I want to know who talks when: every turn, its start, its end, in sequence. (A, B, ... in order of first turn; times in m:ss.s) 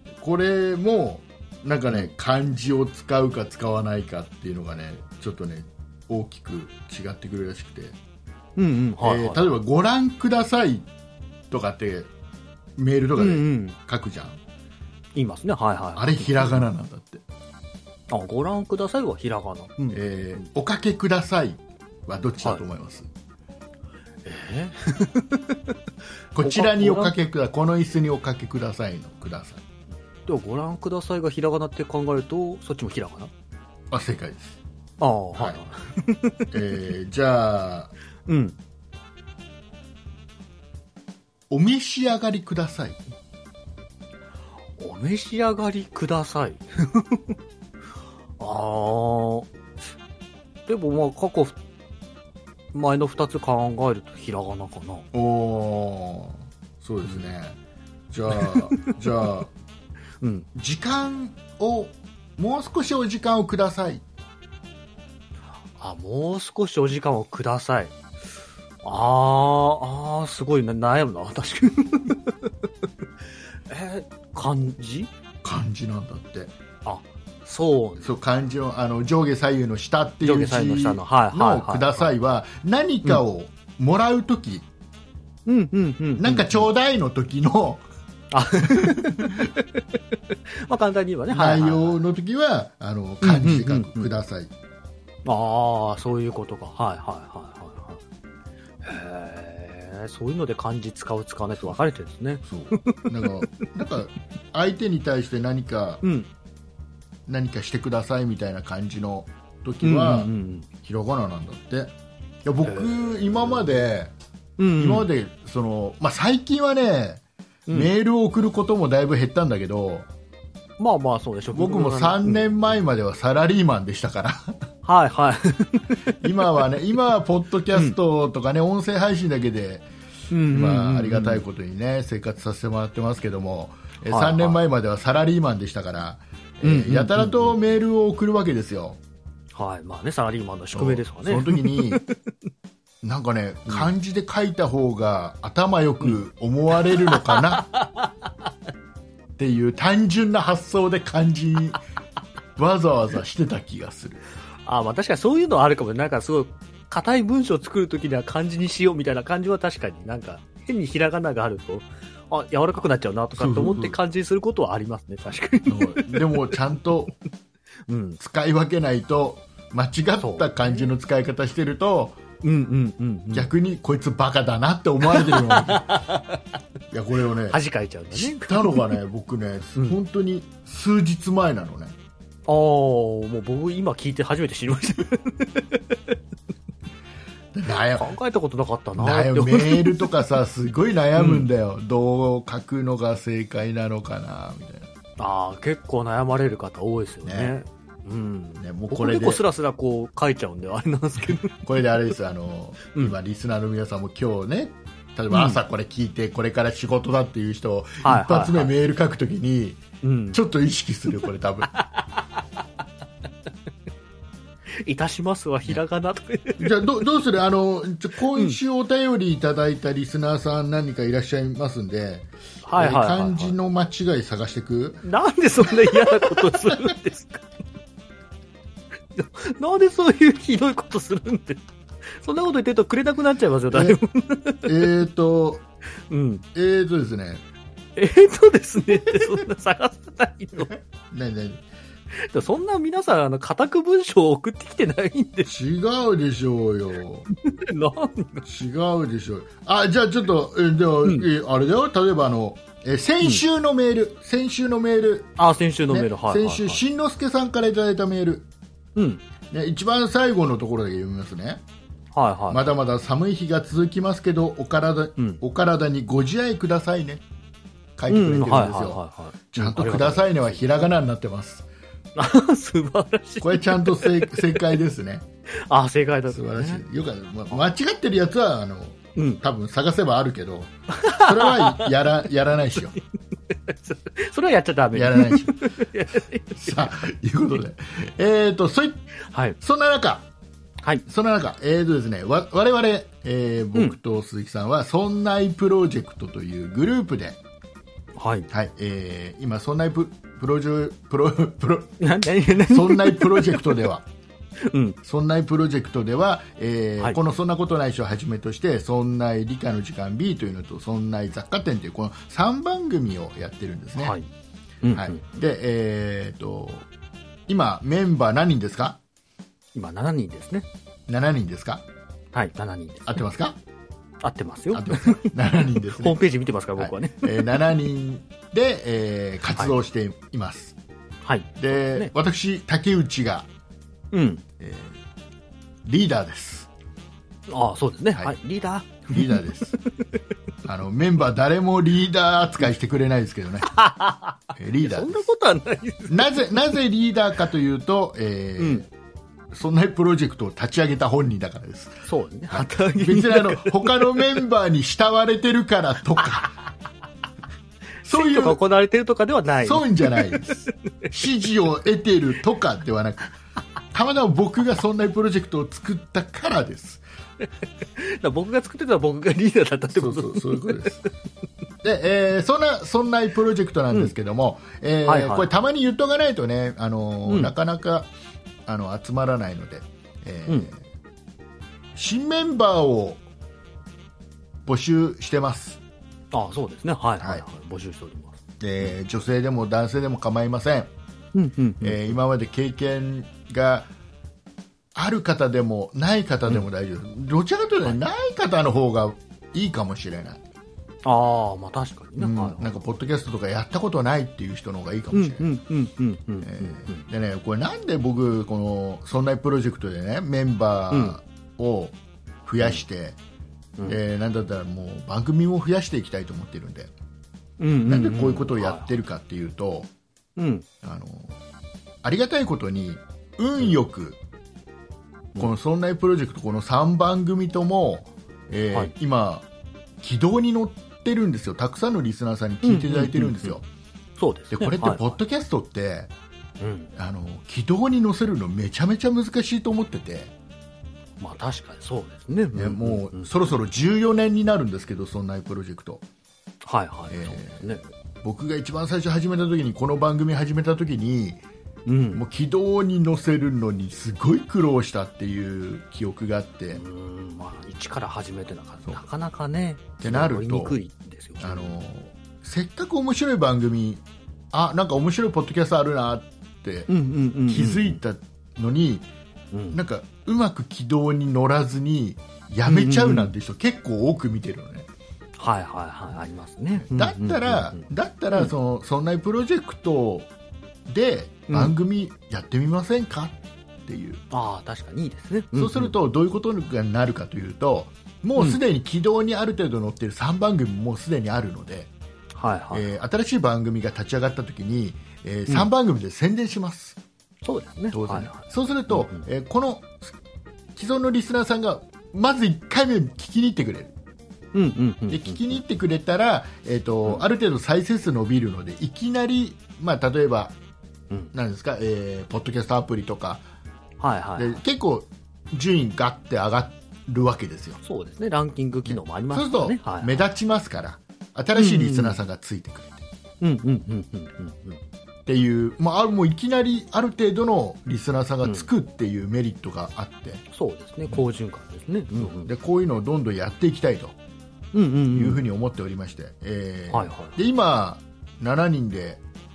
0:00.2-0:08.0 A
0:08.6-0:09.5 B
0:09.0-0:10.9 A
0:11.5-0:12.1 A
0:12.8-0:14.4 A
0:13.2-0:13.8 B
0:15.1-0:16.7 B
0:16.0-0:17.2 A
0:18.1-0:20.4 B
0:19.9-0:23.1 A
0:24.2-0:25.8 B
0:26.3-0:29.6 A
0:26.4-0:27.1 B
0:30.3-0:33.3 B
0:33.9-0:34.6 A
0:35.0-0:36.5 B
0:36.5-0:37.9 A
0:38.3-0:38.6 B
0:41.5-0:43.0 A
0:44.8-0:47.3 B
0:48.4-0:49.5 B
0:50.7-0:51.6 B
0:52.7-0:55.1 B
0:55.1-0:57.6 A
0:58.1-0:59.5 A
0:58.3-0:59.0 B
1:00.2-1:00.5 B
1:00.5-1:04.0 A
1:05.8-1:08.0 B
1:08.8-1:12.5 B
1:13.7-1:15.1 B
1:15.4-1:16.5 A
1:16.8-1:18.1 B
1:18.0-1:24.7 A
1:20.2-1:22.1 B
1:25.4-1:26.7 B
1:26.2-1:27.8 A
1:28.3-1:29.8 B
1:28.7-1:29.4 A
1:30.5-1:32.0 B
1:31.3-1:34.5 A
1:33.2-1:34.1 B
1:35.2-1:38.0 B
1:38.8-1:43.4 B
1:42.4-1:46.0 A
1:46.0-1:46.3 B
1:47.3-1:50.3 A
1:49.8-1:50.7 B
1:50.8-1:51.9 A
1:52.4-1:54.1 A
1:52.6-1:53.5 B
1:54.6-1:55.1 B
1:54.8-2:00.1 A
2:00.8-2:02.6 B
2:01.5-2:04.6 A
2:04.8-2:06.7 B
2:06.2-2:09.9 A
2:10.3-2:11.4 B
2:10.5-2:19.0 A
2:14.0-2:14.6 B
2:16.6-2:17.5 B
2:19.5-2:22.1 B
2:20.7-2:22.0 A
2:23.0-2:27.6 A
2:27.1-2:28.1 B
2:29.4-2:31.8 A
2:32.6-2:34.2 A
2:34.6-2:46.5 B
2:43.3-2:44.0 A
2:45.7-2:47.1 A
2:47.9-2:48.2 B
2:48.2-2:52.2 A
2:50.2-2:50.7 B
2:52.4-2:53.5 B
2:53.3-2:56.0 A
2:55.0-2:56.4 B
2:56.9-2:57.6 A
2:57.5-2:59.0 B
2:58.1-3:02.0 A
3:02.5-3:06.2 B
3:07.5-3:08.1 A
3:07.9-3:10.1 B
3:09.0-3:14.9 A
3:11.1-3:11.4 B
3:15.2-3:21.5 B
3:17.2-3:17.5 A
3:18.6-3:19.4 A
3:21.4-3:29.8 A
3:25.3-3:25.6 B
3:28.0-3:28.7 B
3:30.0-3:30.4 B
3:30.3-3:31.7 A
3:31.8-3:32.0 B
3:34.8-3:37.0 B
3:36.6-3:45.0 A
3:38.3-3:38.6 B
3:42.6-3:43.5 B
3:45.0-3:47.4 B
3:45.7-3:46.8 A
3:49.1-3:51.6 B
3:52.1-3:54.9 B
3:53.7-3:54.0 A
3:54.6-3:55.6 A
3:56.1-3:56.4 B
3:56.5-3:57.4 A
3:58.0-4:00.7 B
3:59.0-3:59.2 A
4:00.7-4:01.6 A
4:02.1-4:05.5 B
4:05.4-4:07.3 A
4:07.3-4:08.4 B
4:08.4-4:15.4 A
4:15.4-4:16.8 B
4:15.9-4:18.5 A
4:19.0-4:19.2 B
4:19.5-4:21.6 A
4:22.1-4:22.6 B
4:22.5-4:27.2 A
4:28.0-4:31.7 A
4:28.1-4:30.6 B
4:32.2-4:34.6 B
4:33.4-4:35.3 A
4:35.7-4:36.8 B
4:36.3-4:42.9 A
4:39.2-4:39.4 B
4:40.9-4:41.9 B
4:43.5-4:46.9 B
4:44.9-4:45.6 A
4:46.5-4:49.0 A
4:49.3-4:49.6 B
4:49.6-4:50.3 A
4:51.0-4:57.4 A
4:58.2-4:58.5 B
4:58.5-5:02.0 A
5:02.0-5:03.8 B
5:02.5-5:04.0 A
5:04.6-5:05.0 B
5:05.0-5:14.2 A
5:13.9-5:14.3 B
5:14.8-5:15.2 B
5:14.9-5:16.9 A
5:17.5-5:19.0 A
5:19.7-5:20.7 B
5:21.1-5:21.8 A
5:22.3-5:23.2 B
5:23.0-5:23.6 A
5:24.2-5:27.3 B
5:24.7-5:26.2 A
5:26.8-5:30.8 A
5:31.2-5:32.1 B
5:31.6-5:33.5 A
5:34.1-5:34.4 B
5:34.6-5:35.0 A
5:35.8-5:36.7 A
5:37.5-5:39.4 B
5:39.1-5:39.8 A
5:40.6-5:43.7 A
5:43.7-5:46.8 B
5:44.6-5:45.2 A
5:46.1-5:48.9 A
5:48.6-5:48.8 B
5:49.5-5:56.5 A
5:52.0-5:54.3 B
5:58.0-5:58.6 A
5:58.1-6:01.2 B
5:59.6-6:03.3 A
6:03.9-6:07.0 A
6:07.9-6:11.0 B
6:09.9-6:11.0 A
6:11.8-6:18.1 A
6:15.0-6:15.5 B
6:17.2-6:17.5 B
6:18.6-6:20.8 A
6:21.9-6:23.2 A
6:24.6-6:25.8 A
6:26.3-6:28.9 B
6:28.6-6:30.9 A
6:31.3-6:32.2 B
6:31.8-6:33.9 A
6:34.9-6:40.4 A
6:41.0-6:42.8 B
6:42.2-6:45.5 A
6:45.1-6:47.0 B
6:46.4-6:53.2 A
6:50.9-6:51.2 B
6:53.8-6:56.9 A
6:57.6-6:58.9 B
6:57.8-6:59.9 A
7:00.4-7:00.6 B
7:00.8-7:01.4 A
7:02.0-7:04.2 A
7:05.4-7:09.5 A
7:10.0-7:13.6 A
7:12.6-7:13.6 B
7:14.2-7:15.1 B
7:14.5-7:16.1 A
7:16.6-7:16.9 B
7:16.9-7:20.3 A
7:21.2-7:23.3 B
7:22.5-7:26.0 A
7:26.6-7:27.9 B
7:27.1-7:27.6 A
7:28.2-7:31.4 A
7:31.8-7:32.2 B
7:32.1-7:36.8 A
7:36.7-7:41.8 B
7:40.0-7:40.8 A
7:41.4-7:46.9 A
7:46.9-7:48.0 B
7:47.5-7:49.1 A
7:49.5-7:49.8 B
7:49.7-7:54.9 A
7:52.7-7:53.3 B
7:55.4-7:58.5 B
7:56.8-8:00.3 A
8:00.9-8:04.2 A
8:01.5-8:01.7 B
8:04.3-8:05.9 B
8:05.5-8:11.9 A
8:12.3-8:12.9 B
8:12.7-8:17.0 A
8:17.4-8:19.2 B
8:17.9-8:20.1 A
8:20.7-8:23.9 A
8:24.5-8:25.6 B
8:25.1-8:30.6 A
8:31.3-8:33.4 A
8:34.0-8:34.6 B
8:34.4-8:37.8 A
8:37.8-8:40.2 B
8:38.8-8:43.0 A
8:41.5-8:42.2 B
8:43.4-8:44.8 B
8:45.2-8:50.4 A
8:48.4-8:48.7 B
8:50.5-8:52.5 B
8:52.1-8:54.2 A
8:54.7-8:55.4 B
8:55.1-8:59.2 A
8:56.9-8:57.4 B